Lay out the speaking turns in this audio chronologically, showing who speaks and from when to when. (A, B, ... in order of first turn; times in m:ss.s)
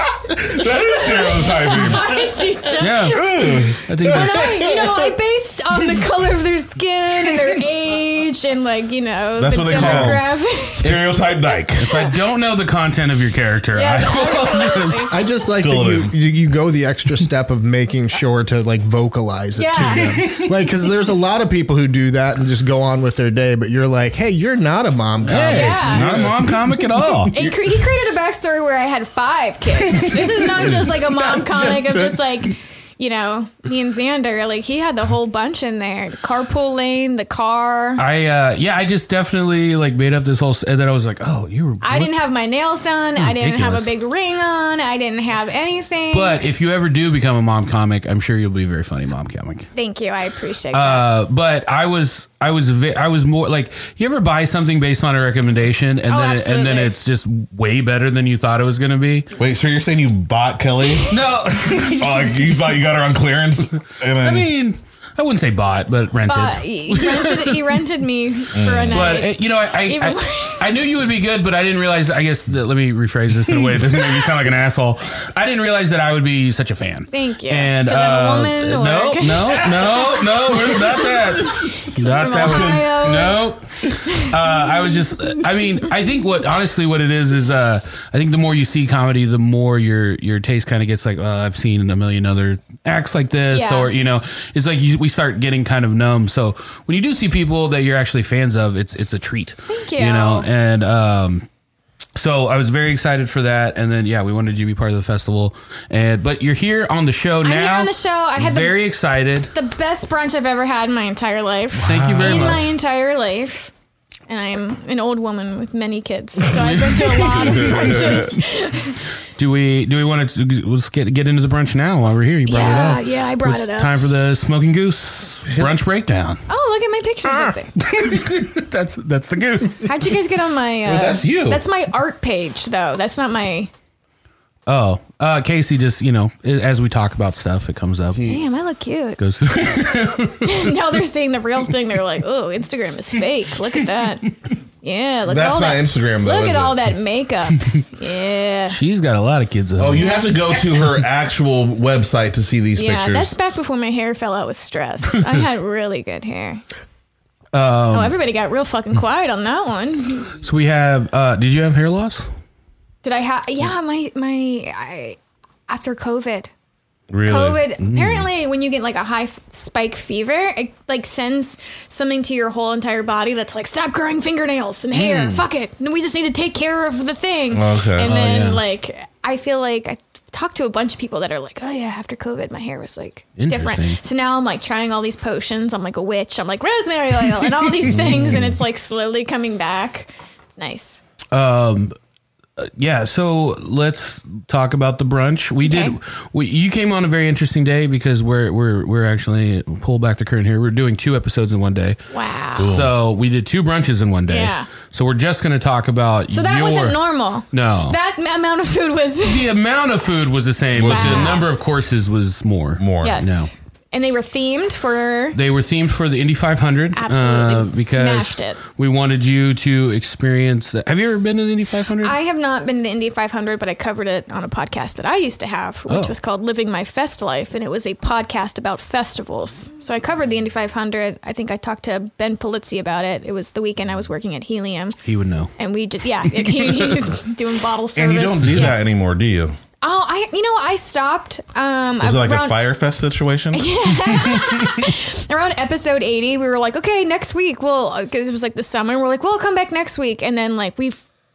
0:00.2-0:02.2 A
0:00.6-0:11.0 B
0:02.8-0:04.8 C
0:03.1-0:03.8 A
0:09.4-0:11.9 A
0:09.7-0:10.2 C
0:10.8-0:11.2 C
0:11.8-0:15.1 C
0:13.7-0:15.4 B
0:15.1-0:25.9 D
0:15.6-0:16.1 A
0:19.6-0:20.3 B
0:19.9-0:20.5 C
0:25.3-0:27.4 C
0:25.3-0:27.5 A
0:25.5-0:26.1 B
0:27.3-0:38.0 B
0:30.6-0:31.6 A
0:38.0-0:42.1 C
0:41.8-0:46.4 B
0:43.2-0:43.9 C
0:46.1-0:49.7 C
0:49.8-0:51.1 B
0:50.7-0:59.3 C
0:56.1-0:57.0 B
0:59.4-1:04.5 A
1:01.1-1:02.1 C
1:04.2-1:07.6 C
1:06.3-1:10.9 B
1:08.5-1:09.2 A
1:08.9-1:41.5 C
1:17.1-1:23.4 B
1:22.4-1:23.3 A
1:33.5-1:33.9 B
1:39.7-1:40.5 B
1:42.2-1:49.5 C
1:47.4-1:48.8 B
1:49.5-1:53.7 B
1:51.8-1:52.7 C
1:51.8-1:52.7 A
1:54.3-1:59.0 B
1:56.4-1:58.3 C
1:57.3-1:58.3 A
1:59.4-2:06.4 C
2:02.5-2:03.9 B
2:05.5-2:05.7 A
2:06.5-2:07.8 B
2:07.3-2:09.9 C
2:09.8-2:13.7 B
2:10.8-2:11.6 A
2:14.7-2:18.2 C
2:18.2-2:18.4 A
2:18.2-2:28.8 B
2:19.2-2:20.7 C
2:25.3-2:26.8 A
2:28.7-2:30.2 C
2:29.8-2:33.3 A
2:30.0-2:30.8 B
2:32.8-2:36.6 B
2:37.5-2:38.2 C
2:37.9-2:40.3 B
2:40.4-2:42.3 C
2:43.0-2:46.5 B
2:47.1-2:47.6 A
2:47.2-3:11.0 B
2:47.8-2:48.3 C
2:54.9-2:55.4 C
2:57.5-2:58.1 A
2:58.0-2:58.6 C
3:03.4-3:04.0 C
3:07.9-3:08.5 A
3:11.3-3:11.9 C
3:12.6-3:22.0 C
3:15.6-3:16.0 B
3:22.1-3:22.8 B
3:22.6-3:27.0 C
3:22.6-3:22.9 A
3:24.3-3:24.7 B
3:26.3-3:29.5 B
3:27.5-3:28.0 C
3:29.2-3:33.5 C
3:30.8-3:31.4 A
3:30.8-3:31.5 B
3:32.8-3:33.2 A
3:33.0-3:35.4 B
3:35.3-3:42.2 C
3:37.0-3:38.6 B
3:42.0-3:55.0 B
3:45.9-3:46.2 C
3:55.0-3:55.5 C
3:55.6-3:58.8 B
3:56.4-3:57.0 C
3:58.0-3:59.6 A
3:59.8-4:02.6 B
4:02.0-4:03.7 A
4:03.5-4:11.0 B
4:04.1-4:04.7 C